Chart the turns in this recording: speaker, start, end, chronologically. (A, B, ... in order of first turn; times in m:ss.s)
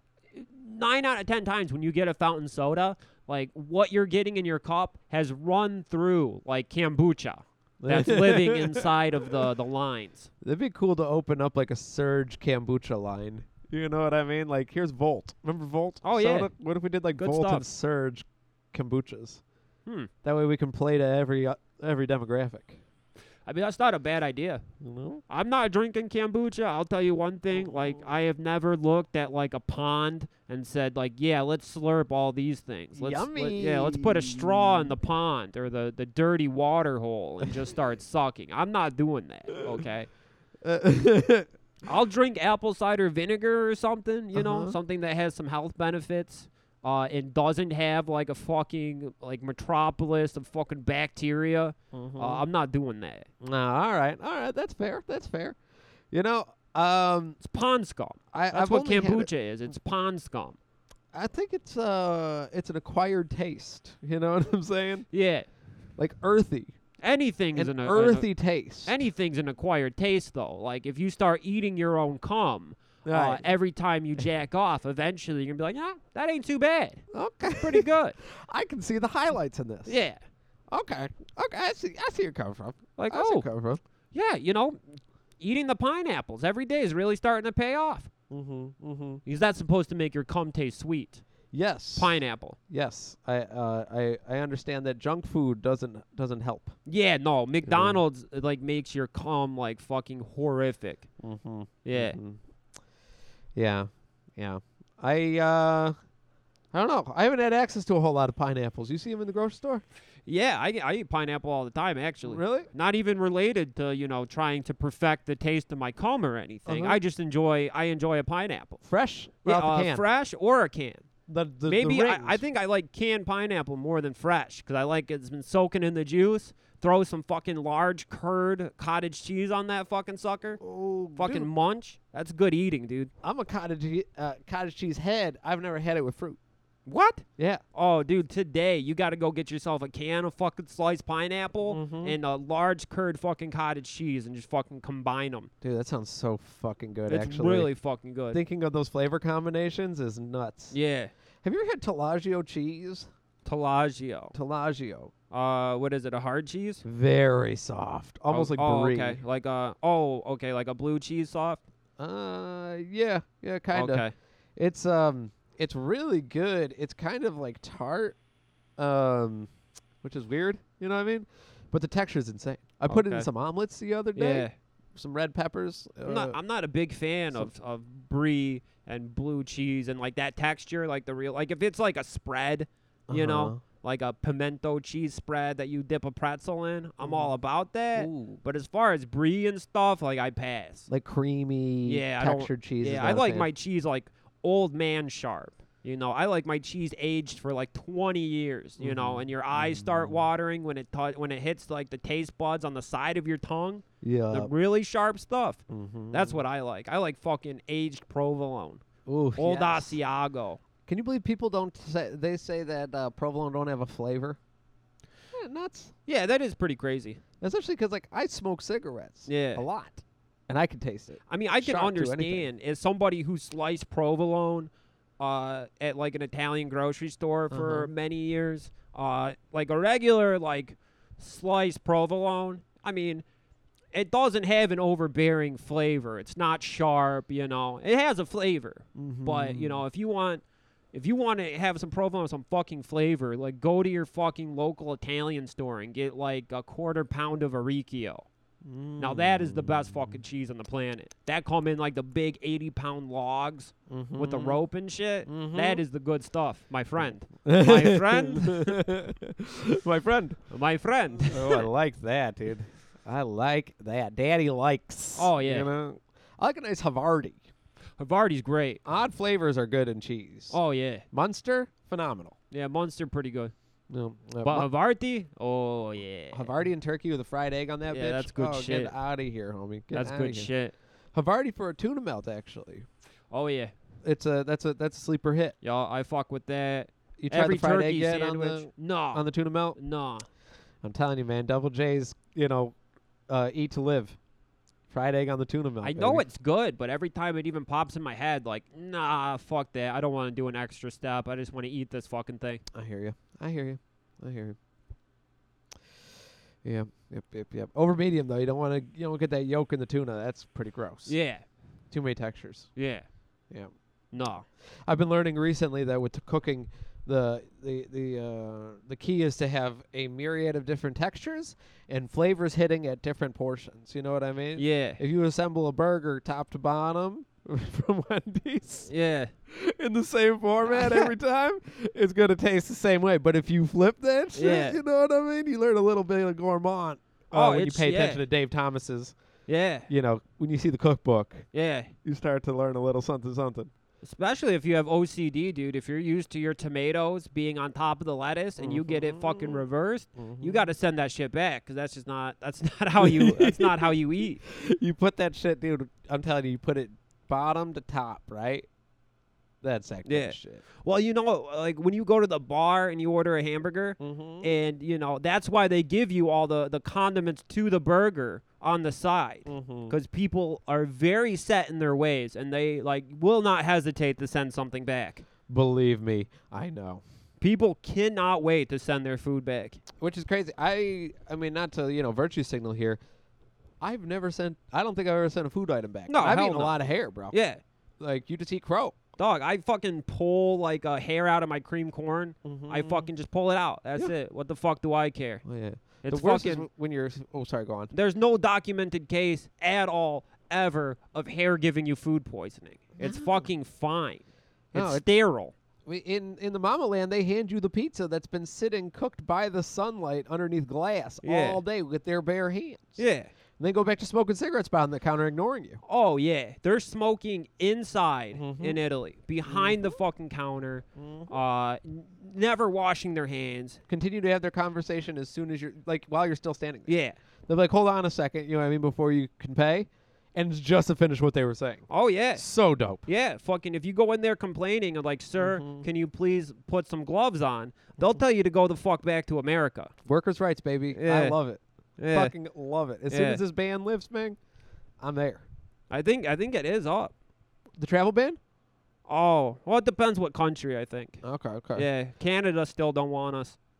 0:00.3-0:10.3 A
0:07.8-0:08.8 B
0:10.4-0:19.4 B
0:16.0-0:16.5 A
0:17.2-0:17.6 A
0:20.2-0:22.8 B
0:23.4-0:24.6 A
0:24.8-0:25.2 B
0:25.3-0:40.1 A
0:27.5-0:28.1 B
0:32.9-0:34.9 B
0:40.6-0:41.5 B
0:41.8-0:53.3 A
0:44.3-0:44.8 B
0:51.9-0:52.4 B
0:53.4-0:55.6 B
0:56.1-0:57.4 B
0:57.4-1:00.6 A
0:58.3-0:59.3 B
1:01.1-1:05.1 B
1:05.1-1:05.4 A
1:06.0-1:06.7 B
1:07.0-1:08.3 A
1:07.5-1:09.0 B
1:08.8-1:17.0 A
1:13.0-1:13.4 B
1:17.1-1:20.0 B
1:17.6-1:18.2 A
1:19.8-1:20.2 A
1:20.7-1:23.8 B
1:23.0-1:23.4 A
1:24.1-1:24.8 A
1:25.4-1:28.1 A
1:28.3-1:29.2 B
1:29.2-1:31.2 A
1:31.5-1:32.2 B
1:32.0-1:32.6 A
1:32.7-1:36.7 B
1:36.8-1:41.1 A
1:37.6-1:38.0 B
1:41.2-1:42.4 B
1:41.8-1:42.2 A
1:43.5-1:46.0 B
1:46.7-1:49.8 B
1:50.2-1:58.8 A
1:52.2-1:52.7 B
1:56.6-1:57.0 B
1:58.8-2:00.0 B
1:59.4-2:01.0 A
2:01.3-2:02.4 B
2:01.7-2:10.6 A
2:10.6-2:11.5 B
2:11.2-2:13.1 A
2:13.2-2:16.4 B
2:16.8-2:25.5 A
2:21.7-2:22.2 B
2:25.6-2:27.7 B
2:27.1-2:28.4 A
2:28.3-2:30.7 B
2:30.7-2:31.1 A
2:31.4-2:33.1 B
2:33.4-2:34.3 A
2:34.3-2:35.1 B
2:35.3-2:36.8 A
2:36.8-2:39.2 B
2:38.3-2:41.6 A
2:42.0-2:44.0 B
2:43.7-2:44.1 A
2:44.6-2:48.2 B
2:48.8-2:49.5 B
2:50.0-2:56.4 B
2:52.9-2:53.3 A
2:54.2-2:54.5 A
2:56.0-3:10.9 A
3:03.1-3:03.6 B
3:07.0-3:07.3 B
3:07.9-3:08.4 B
3:10.9-3:13.5 B
3:11.8-3:28.8 A
3:18.8-3:20.2 B
3:24.0-3:24.5 B
3:25.7-3:26.4 B
3:29.0-3:30.0 B
3:29.4-3:30.6 A
3:30.8-3:34.4 B
3:35.3-3:35.9 B
3:36.1-3:37.2 A
3:37.4-3:42.5 B
3:39.3-3:39.6 A
3:41.3-3:53.2 A
3:47.5-3:47.9 B
3:53.9-4:00.4 A
3:59.0-3:59.8 B
4:00.9-4:08.3 A
4:08.6-4:10.2 B
4:09.0-4:18.8 A
4:13.9-4:14.6 B
4:15.3-4:15.8 B
4:17.4-4:20.4 B
4:20.5-4:21.6 A
4:21.3-4:27.4 B
4:25.2-4:25.7 A
4:28.0-4:28.8 A
4:28.8-4:30.6 B
4:30.5-4:31.0 A
4:31.1-4:32.4 B
4:32.5-4:33.5 A
4:33.9-4:34.7 B
4:34.4-4:36.5 A
4:36.3-4:40.5 B
4:37.9-4:38.9 A
4:39.9-4:40.7 A
4:41.1-4:42.8 B
4:43.3-4:43.7 A
4:44.0-4:45.6 B
4:45.6-4:49.2 A
4:47.2-4:49.8 B
4:49.8-4:50.3 A
4:50.8-4:52.7 B
4:53.3-4:54.2 B
4:54.9-4:56.2 B
4:55.8-5:02.6 A
5:02.7-5:04.6 B
5:06.6-5:11.1 B
5:11.1-5:11.4 A
5:11.9-5:12.7 B
5:12.8-5:13.0 A
5:14.1-5:14.4 A
5:14.8-5:28.9 B
5:24.6-5:25.0 A
5:28.9-5:29.3 A
5:29.5-5:39.1 B
5:30.6-5:31.1 A
5:34.3-5:34.8 A
5:37.3-5:38.2 A
5:39.5-5:39.9 A
5:39.9-5:41.5 B
5:41.5-5:41.9 A
5:42.0-5:43.7 B
5:44.0-5:54.4 A
5:48.6-5:49.6 B
5:50.2-5:50.6 B
5:53.0-5:58.7 B
5:59.6-6:00.6 B
6:00.0-6:15.2 A
6:04.0-6:04.5 B
6:09.5-6:09.9 B
6:15.5-6:17.0 B
6:17.4-6:19.8 A
6:20.0-6:23.0 B
6:23.8-6:27.4 B
6:26.1-6:26.8 A
6:27.3-6:27.6 A
6:28.0-6:29.0 B
6:29.2-6:35.4 A
6:32.4-6:33.1 B
6:35.4-6:37.9 B
6:36.0-6:36.7 A
6:37.9-6:45.5 A
6:43.0-6:43.4 B
6:44.7-6:45.0 B
6:45.8-6:53.0 B
6:51.2-6:51.6 A
6:53.0-6:53.3 A
6:53.6-6:55.8 B
6:55.8-7:03.8 A
6:58.3-6:58.8 B
6:59.4-6:59.9 B
7:01.0-7:01.3 B
7:03.9-7:06.9 B
7:06.9-7:07.2 A
7:07.5-7:13.0 B
7:11.9-7:12.4 A
7:13.0-7:19.9 A
7:15.4-7:15.8 B
7:20.0-7:21.6 B
7:20.9-7:21.4 A
7:22.0-7:22.3 A
7:22.1-7:24.4 B
7:23.1-7:23.4 A
7:25.0-7:25.4 B
7:25.9-7:27.1 A
7:27.8-7:28.4 B
7:29.1-7:31.2 A
7:31.2-7:31.9 B
7:31.7-7:33.6 A